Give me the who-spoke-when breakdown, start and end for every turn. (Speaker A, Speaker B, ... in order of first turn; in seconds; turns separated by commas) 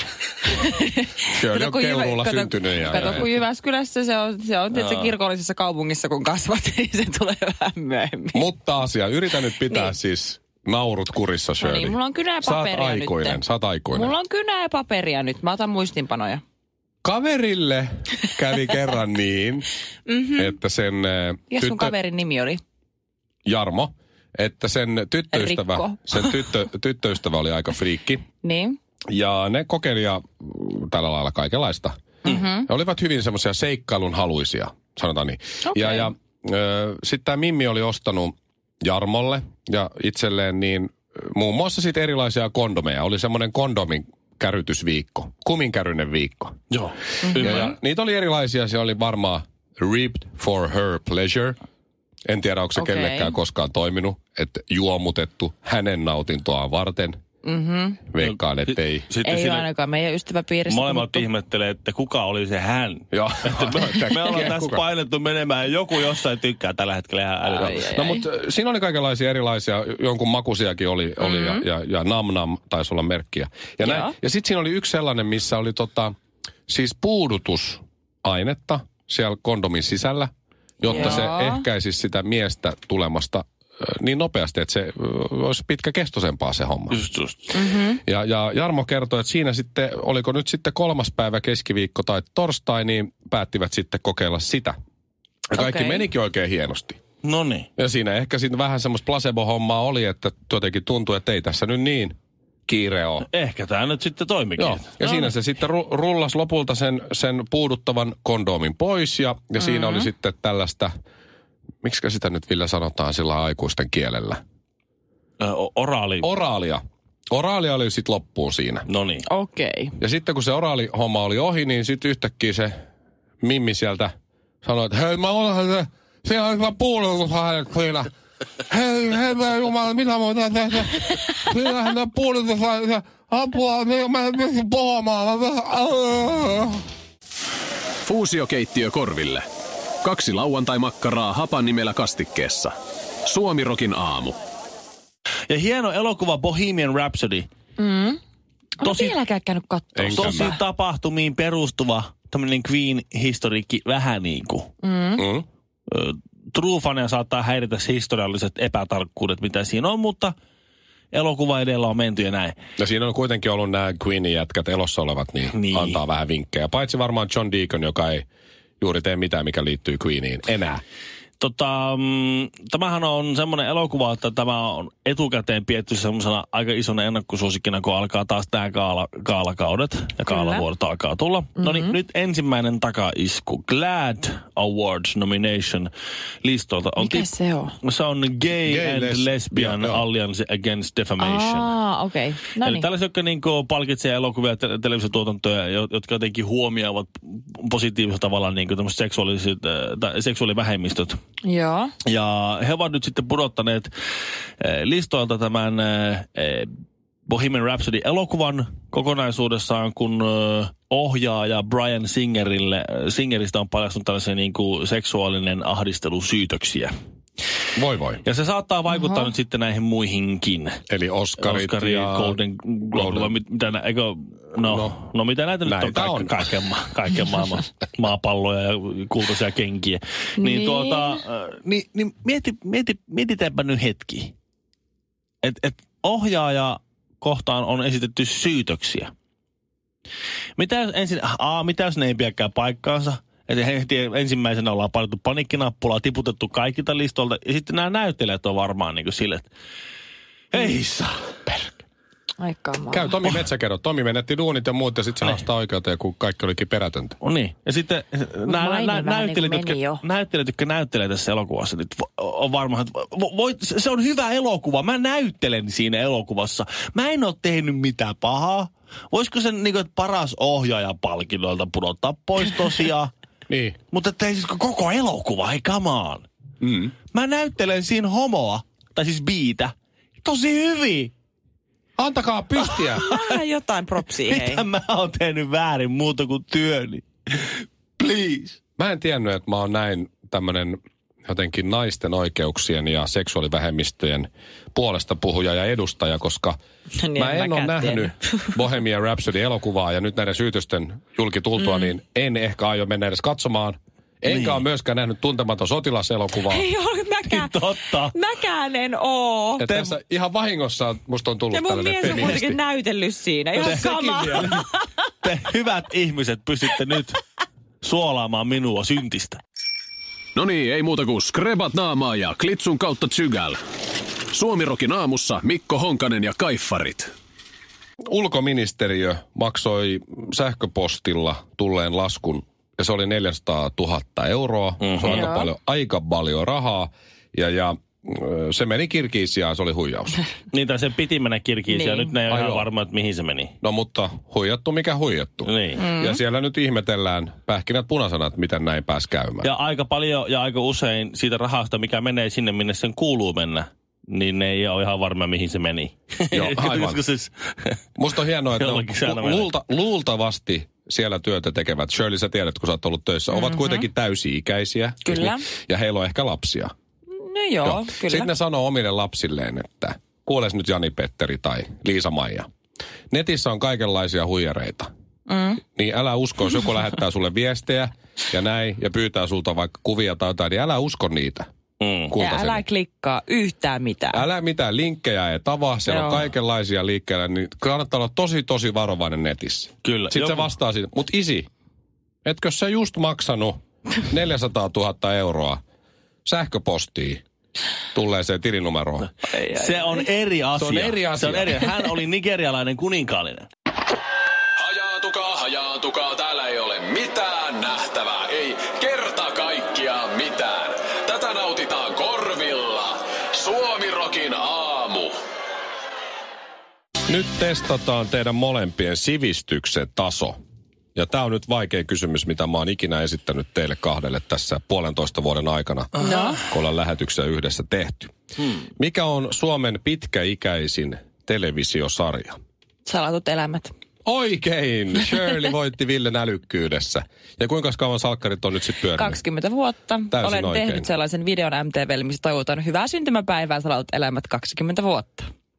Speaker A: 0.5-8.5, Speaker B: 1.3-3.3, Speaker B: 4.8-5.1, Speaker B: 8.3-14.1, Speaker A: 9.6-9.9, Speaker A: 11.6-16.4, Speaker B: 17.0-19.7, Speaker A: 20.1-20.6, Speaker B: 20.4-21.9, Speaker A: 21.5-22.6, Speaker B: 23.5-28.2, Speaker A: 25.3-26.4, Speaker A: 28.4-28.8, Speaker B: 29.1-46.6, Speaker A: 32.2-32.7, Speaker A: 35.7-36.1, Speaker C: 46.7-47.7, Speaker A: 47.3-47.7, Speaker B: 47.3-51.6, Speaker B: 52.3-57.2, Speaker A: 52.8-53.4, Speaker A: 57.4-58.0, Speaker B: 58.1-59.1, Speaker C: 58.2-59.7, Speaker A: 59.2-61.3, Speaker C: 60.7-67.9, Speaker B: 63.1-64.8, Speaker A: 67.5-68.2, Speaker B: 67.6-76.1, Speaker A: 71.2-71.6, Speaker A: 73.8-74.1, Speaker B: 76.7-80.3, Speaker B: 80.8-87.0, Speaker A: 80.9-81.6, Speaker C: 86.9-87.5, Speaker A: 87.5-88.0, Speaker B: 88.0-94.8, Speaker B: 95.5-97.0, Speaker A: 95.5-96.1, Speaker C: 97.2-97.7, Speaker B: 97.8-102.2, Speaker B: 102.7-103.3, Speaker C: 103.3-104.9, Speaker B: 104.6-110.9, Speaker A: 105.0-105.3, Speaker A: 109.6-110.1, Speaker B: 111.8-114.4, Speaker C: 115.4-116.3, Speaker B: 116.2-118.9, Speaker C: 118.9-119.2, Speaker A: 119.3-120.0, Speaker B: 120.0-122.8, Speaker B: 123.4-124.1, Speaker B: 124.6-128.1, Speaker B: 128.7-136.8, Speaker D: 138.0-139.5, Speaker D: 140.0-142.8, Speaker D: 143.3-144.4, Speaker C: 145.5-147.5, Speaker A: 147.8-148.2, Speaker A: 148.8-150.6, Speaker C: 148.8-149.1, Speaker B: 149.9-150.6, Speaker C: 150.1-154.7, Speaker A: 154.8-155.2, Speaker B: 155.2-155.5, Speaker C: 155.9-160.3, Speaker C: 161.1-162.6, Speaker B: 162.8-168.2, Speaker C: 165.5-166.0, Speaker B: 168.8-170.8, Speaker C: 171.4-185.9, Speaker A: 180.3-180.6, Speaker A: 181.6-182.0, Speaker C: 186.4-187.3, Speaker A: 187.0-187.8, Speaker C: 187.8-191.7, Speaker B: 188.7-190.1, Speaker A: 191.2-192.9, Speaker C: 192.6-201.2, Speaker A: 201.4-201.9, Speaker C: 202.1-203.9, Speaker C: 204.6-206.7, Speaker C: 207.3-216.9, Speaker B: 217.8-218.2, Speaker C: 218.2-220.8, Speaker A: 218.9-219.3, Speaker B: 220.9-222.4, Speaker C: 221.4-234.3, Speaker B: 222.9-223.3, Speaker B: 224.6-224.9, Speaker B: 225.7-226.3, Speaker A: 230.4-231.1, Speaker C: 235.4-239.1, Speaker C: 240.6-249.5, Speaker C: 250.5-251.8, Speaker A: 252.4-253.4, Speaker B: 252.9-257.2, Speaker C: 257.2-273.1, Speaker A: 258.5-260.0, Speaker B: 273.5-273.8, Speaker C: 273.9-276.3, Speaker B: 276.6-276.9, Speaker C: 277.1-281.1, Speaker B: 282.0-283.1, Speaker C: 282.7-283.2, Speaker A: 283.0-284.6, Speaker C: 284.3-288.6, Speaker B: 288.8-296.6, Speaker A: 297.0-298.6, Speaker B: 297.1-306.7, Speaker A: 301.6-301.9, Speaker C: 304.3-304.6, Speaker A: 306.5-309.7, Speaker C: 307.3-308.1, Speaker B: 309.6-312.6, Speaker C: 309.7-309.9, Speaker A: 311.5-314.9, Speaker B: 313.6-314.5, Speaker C: 313.6-314.6, Speaker C: 315.2-317.2, Speaker C: 317.8-319.4, Speaker D: 320.4-323.6, Speaker D: 324.3-327.1, Speaker B: 328.1-340.2, Speaker C: 334.8-335.3, Speaker A: 335.1-335.5, Speaker C: 340.5-343.5, Speaker A: 341.7-342.1, Speaker B: 342.3-342.7, Speaker B: 343.6-349.5, Speaker C: 345.4-345.8, Speaker A: 345.8-346.2, Speaker C: 349.4-357.8, Speaker B: 356.3-357.0, Speaker B: 358.0-366.7, Speaker C: 358.6-359.5, Speaker A: 363.3-363.9, Speaker A: 365.0-365.5, Speaker A: 367.2-368.3, Speaker B: 367.6-372.5, Speaker B: 373.1-374.9, Speaker A: 375.3-375.6, Speaker B: 375.8-381.5, Speaker C: 381.8-382.1, Speaker B: 382.1-382.6, Speaker A: 382.2-384.2, Speaker B: 384.1-391.5, Speaker A: 385.9-386.3, Speaker C: 389.8-390.5, Speaker B: 392.2-395.6, Speaker B: 396.2-397.2, Speaker B: 397.9-399.1, Speaker C: 399.2-403.5, Speaker B: 400.6-401.7, Speaker D: 404.6-415.1, Speaker B: 417.1-420.4, Speaker B: 421.0-428.1, Speaker A: 426.0-426.4, Speaker B: 428.8-432.4, Speaker A: 432.9-433.7, Speaker B: 434.1-439.2, Speaker A: 438.9-445.3, Speaker B: 440.1-440.9